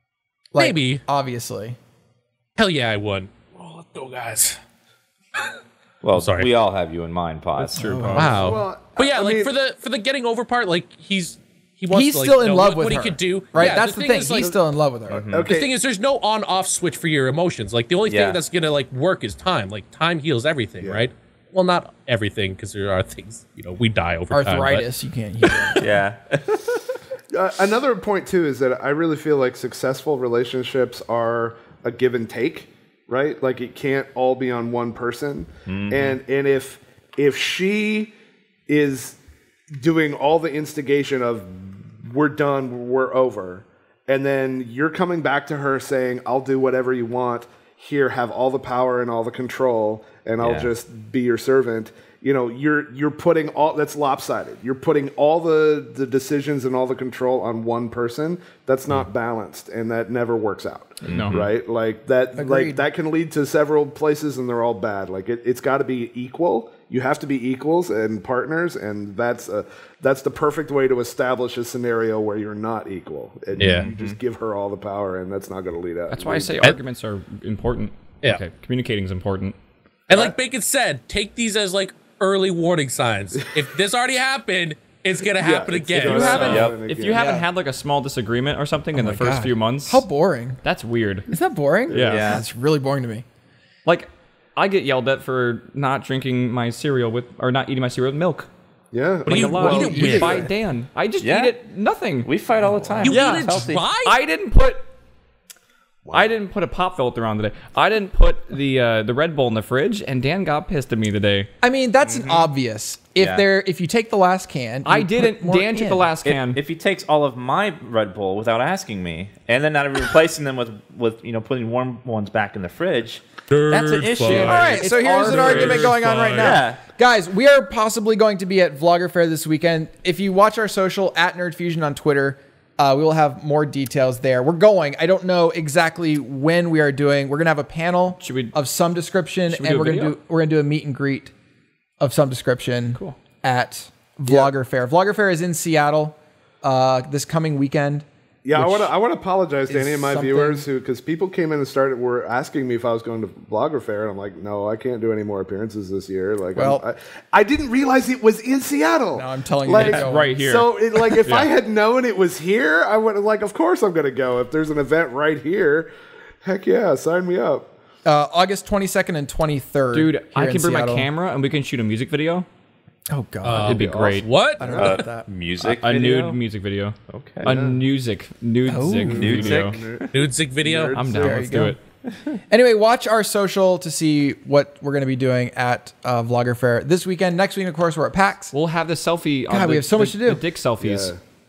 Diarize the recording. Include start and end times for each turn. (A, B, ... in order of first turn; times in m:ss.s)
0:00.5-0:01.8 A
0:00.6-0:01.0 B
0:02.6-0:04.6 B
0:06.0-0:07.9 C
0:06.1-0:06.5 B
0:07.7-0:08.5 D
0:07.7-0:08.5 A
0:08.1-0:14.5 B
0:08.4-0:09.5 E
0:11.9-0:15.3 A
0:15.1-0:15.5 C
0:15.3-0:15.7 E
0:15.5-0:24.8 B
0:18.0-0:18.4 C
0:20.8-0:21.1 E
0:24.3-0:25.8 A
0:25.8-0:26.8 C
0:27.3-0:38.1 E
0:35.7-0:36.2 C
0:38.7-0:39.2 E
0:39.7-1:16.6 E
0:50.4-0:50.7 C
1:01.0-1:01.4 D
1:01.1-1:01.5 C
1:02.4-1:02.8 A
1:13.6-1:14.2 C
1:13.6-1:13.9 B
1:16.1-1:19.6 D
1:20.1-1:26.7 B
1:20.1-1:20.3 E
1:25.3-1:27.3 E
1:26.0-1:30.0 D
1:26.1-1:26.4 A
1:26.4-1:26.8 C
1:27.0-1:27.5 A
1:28.9-1:30.6 A
1:30.6-1:31.3 D
1:31.3-1:33.2 A
1:31.9-1:32.4 D
1:31.9-1:32.4 C
1:33.8-1:38.5 D
1:38.9-1:40.5 E
1:39.2-1:40.4 B
1:39.2-1:42.3 D
1:39.5-1:40.4 A
1:41.2-1:41.6 C
1:42.2-1:43.8 C
1:43.0-1:44.1 B
1:43.0-1:44.9 D
1:46.0-1:46.3 E
1:46.1-1:51.5 D
1:51.6-1:56.1 A
1:52.0-1:52.5 C
1:53.2-1:53.4 C
1:54.8-1:56.6 D
1:56.2-2:06.8 C
2:03.5-2:06.6 B
2:04.2-2:05.9 D
2:04.3-2:21.3 A
2:18.2-2:18.6 D
2:19.5-2:20.2 D
2:22.0-2:28.9 A
2:24.3-2:24.5 E
2:28.4-2:45.9 E
2:29.7-2:30.6 A
2:36.5-2:36.8 A
2:39.1-2:40.3 A
2:39.7-2:41.5 D
2:46.4-2:47.7 E
2:48.0-2:51.1 A
2:49.9-2:52.4 D
2:53.1-2:55.3 A
2:53.4-2:54.6 B
2:53.6-2:54.3 D
2:54.6-2:55.0 E
2:54.7-2:56.4 C
2:55.6-2:59.8 D
2:57.1-2:57.5 C
2:57.4-2:57.8 E
2:58.6-2:59.3 A
2:59.0-3:00.1 E
2:59.1-3:00.1 C
3:00.1-3:01.0 B
3:00.6-3:01.7 E
3:00.9-3:01.8 D
3:01.2-3:01.8 A
3:02.5-3:08.5 A
3:08.5-3:11.1 D
3:09.5-3:10.4 A
3:10.8-3:11.2 E